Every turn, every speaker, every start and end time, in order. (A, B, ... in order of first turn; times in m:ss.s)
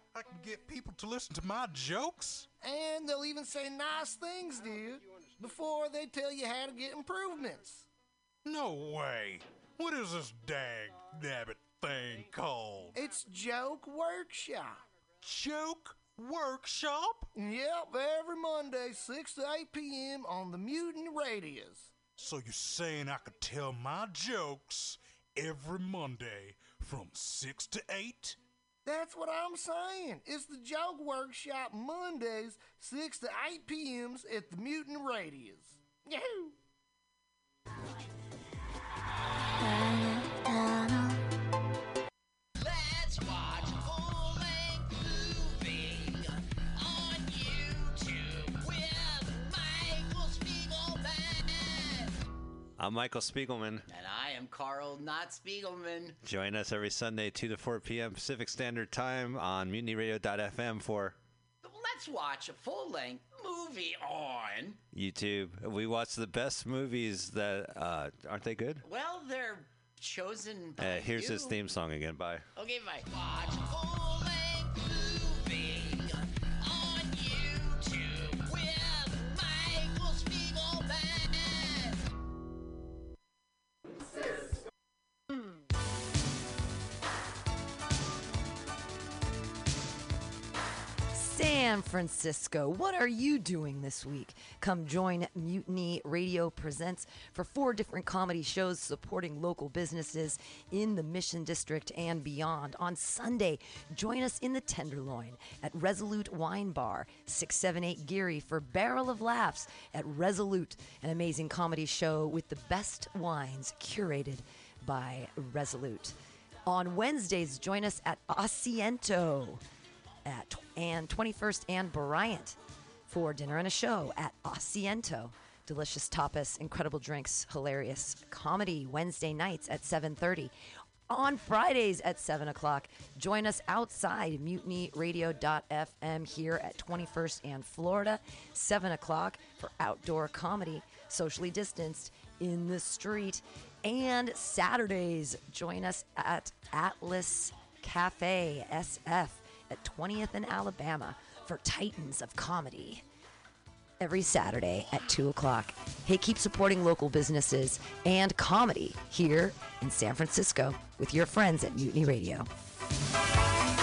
0:00.1-0:02.5 A
0:02.6-0:07.9 B
0:08.4-0:13.0 A
0:12.9-0:14.8 B
0:15.2-0:17.3 A
0:17.3-0:22.1 B
0:22.2-0:28.4 A
0:28.8-0:36.6 B
0:52.8-0:53.8 C
0:56.2-1:01.2 C
1:01.8-1:04.7 D
1:04.9-1:08.9 C
1:09.0-1:11.5 D
1:10.8-1:12.5 C
1:12.7-1:13.5 D
1:31.1-1:56.2 E
1:56.7-1:59.6 E
2:00.2-2:02.6 E
2:03.1-2:10.5 E
2:11.1-2:33.0 E
2:34.0-2:42.5 E